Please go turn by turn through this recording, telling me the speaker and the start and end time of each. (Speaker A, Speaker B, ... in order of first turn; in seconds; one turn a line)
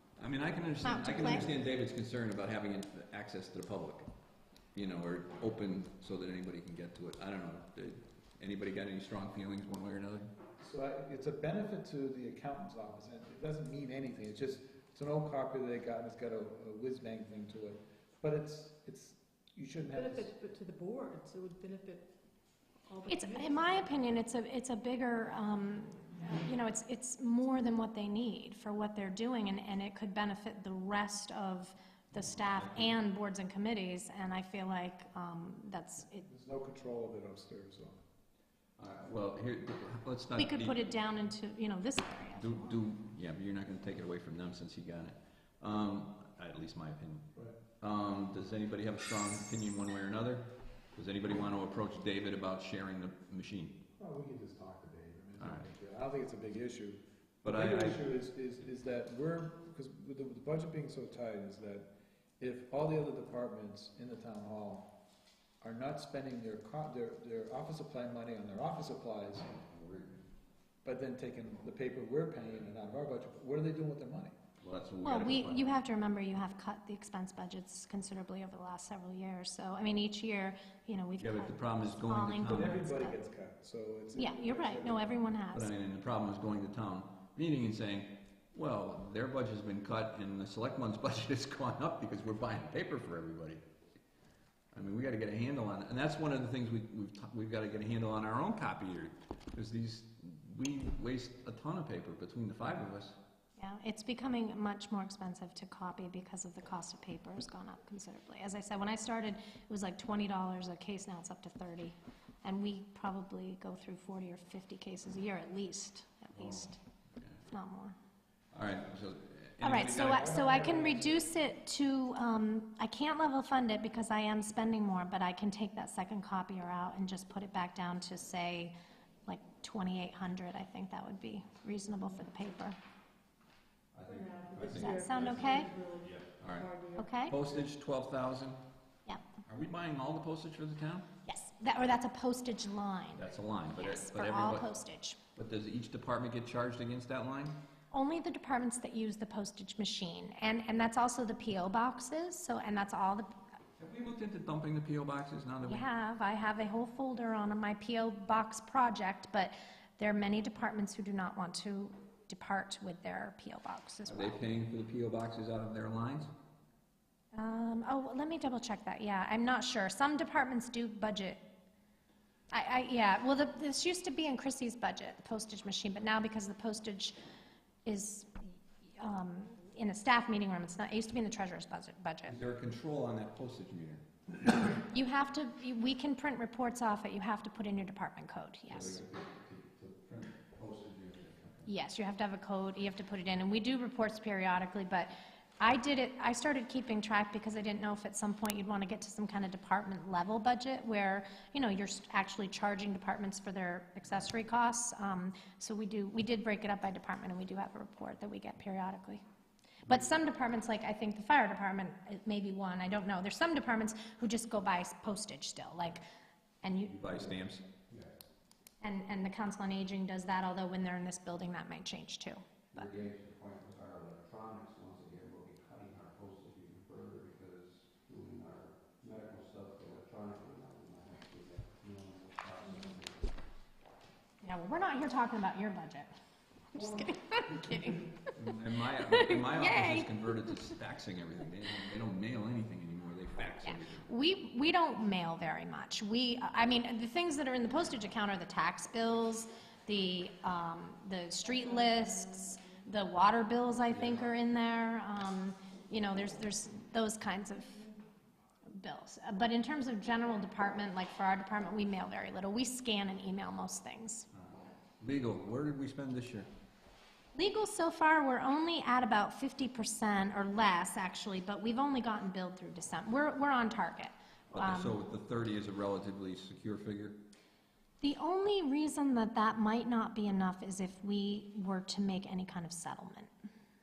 Speaker A: 0.2-4.1
Speaker B: 0.8-1.5
Speaker A: 4.7-10.3
Speaker C: 10.6-20.3
Speaker D: 19.9-22.1
Speaker D: 22.9-24.0
Speaker B: 23.1-36.3
Speaker A: 32.1-32.8
Speaker C: 36.2-38.0
Speaker A: 38.8-41.0
Speaker B: 40.4-42.8
Speaker A: 42.4-53.8
Speaker C: 54.0-61.9
Speaker A: 55.4-55.7
Speaker A: 57.4-58.0
Speaker C: 62.4-64.9
Speaker C: 65.6-69.5
Speaker A: 69.5-70.2
Speaker C: 70.8-74.3
Speaker A: 74.6-75.8
Speaker B: 75.0-83.2
Speaker A: 81.2-82.8
Speaker C: 82.4-85.1
Speaker B: 84.2-85.7
Speaker A: 85.5-93.6
Speaker A: 94.7-103.2
Speaker B: 103.6-116.8
Speaker A: 116.3-117.5
Speaker B: 117.5-118.0
Speaker A: 118.5-120.3
Speaker B: 119.6-128.7
Speaker C: 120.1-121.2
Speaker B: 129.3-132.8
Speaker A: 133.9-136.7
Speaker D: 134.1-137.3
Speaker B: 134.7-135.7
Speaker B: 137.0-137.3
Speaker A: 137.3-138.6
Speaker A: 139.4-141.1
Speaker B: 141.3-143.2
Speaker A: 143.2-144.7
Speaker B: 143.8-145.2
Speaker A: 145.4-147.6
Speaker B: 147.9-153.3
Speaker A: 153.8-155.8
Speaker B: 155.6-164.4
Speaker A: 164.1-166.3
Speaker B: 167.3-171.4
Speaker B: 172.5-177.2
Speaker B: 177.9-182.4
Speaker A: 182.3-184.0
Speaker B: 184.9-189.1
Speaker A: 188.7-191.6
Speaker B: 191.7-209.2
Speaker B: 209.8-216.0
Speaker B: 216.6-217.3
Speaker A: 217.0-218.0
Speaker B: 218.8-222.9
Speaker A: 222.7-233.2
Speaker B: 234.4-236.1
Speaker B: 236.7-240.6
Speaker A: 238.4-244.1
Speaker B: 243.6-257.9
Speaker B: 258.7-264.3
Speaker A: 264.4-266.5
Speaker B: 267.4-275.0
Speaker A: 274.5-277.2
Speaker B: 278.0-283.3